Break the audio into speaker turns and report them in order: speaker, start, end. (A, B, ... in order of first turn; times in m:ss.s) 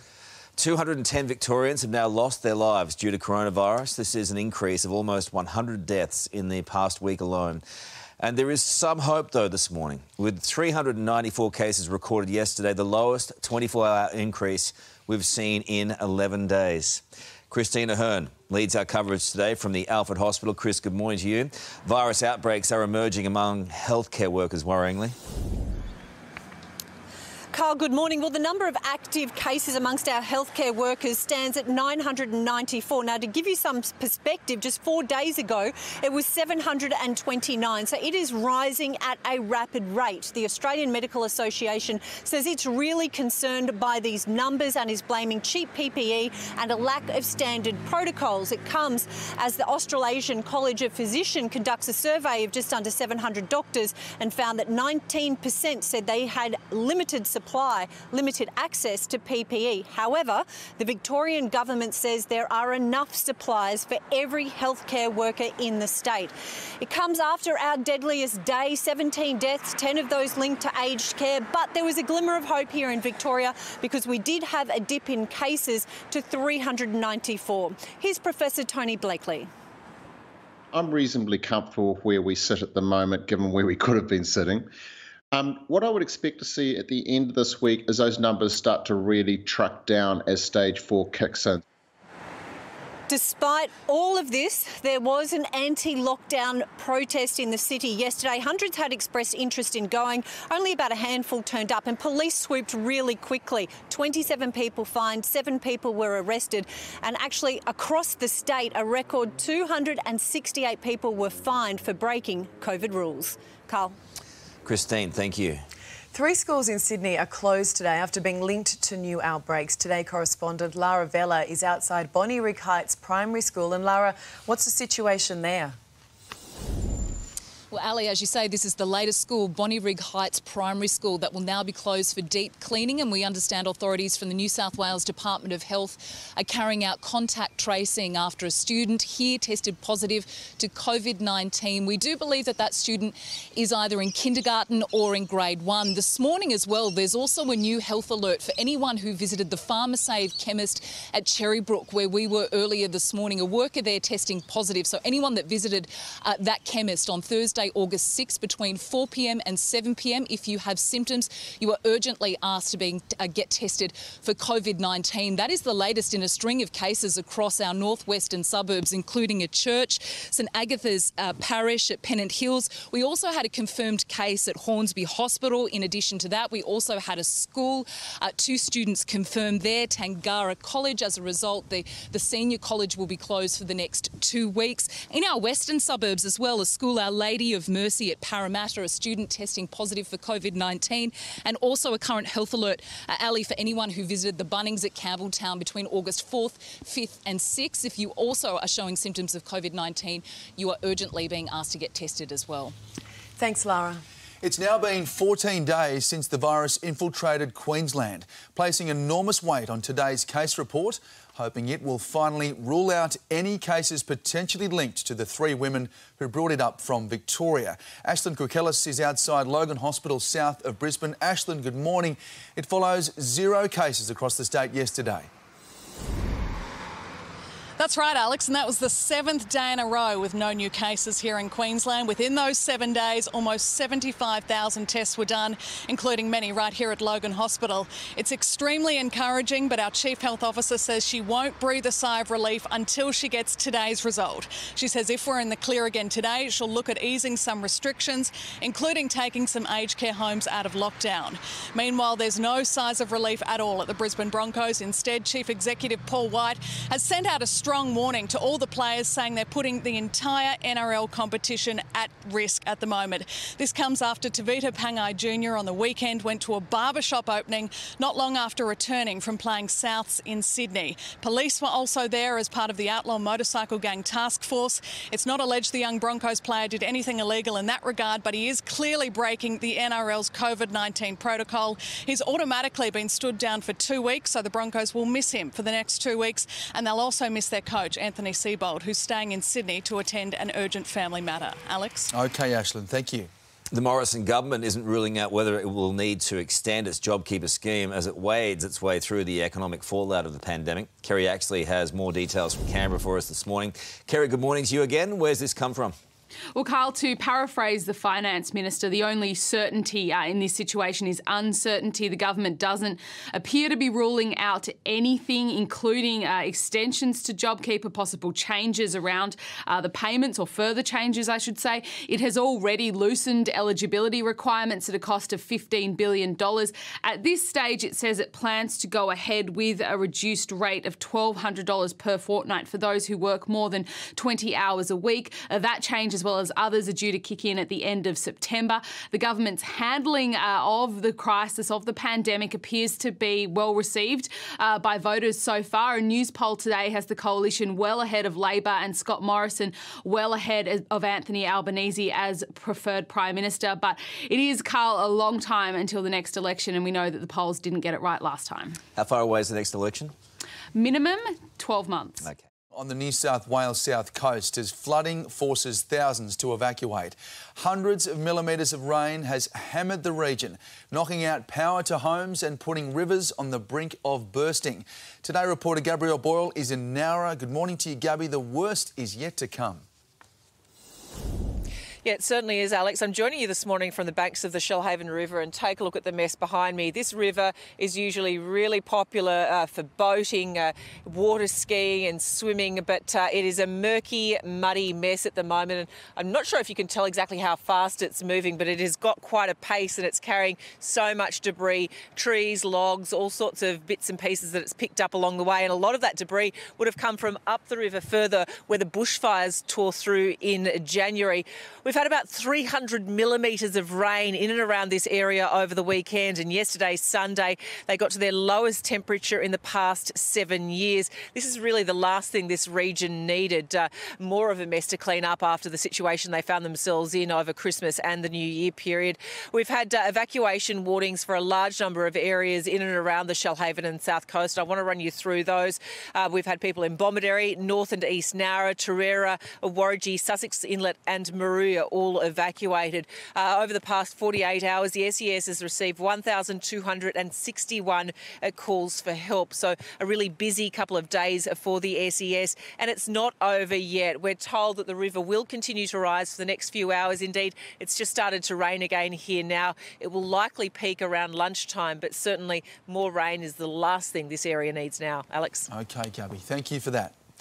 0:00.6-0:07.6 A
0:08.2-0:25.2 A
0:27.5-1:19.5 B
1:20.7-1:24.7 C
1:25.3-1:31.6 C
1:33.1-1:54.0 B
1:54.6-1:55.6 A
1:56.1-2:05.8 D
2:07.7-3:22.8 E
3:23.4-3:24.0 D
3:24.4-3:45.3 F
3:47.8-4:52.1 G
4:52.1-4:53.3 F
4:53.7-5:06.0 A
5:06.5-5:58.8 H
5:59.0-6:00.1 A
6:00.8-6:02.2 H
6:02.7-6:19.8 F
6:22.0-7:45.7 I
7:45.7-7:47.2 F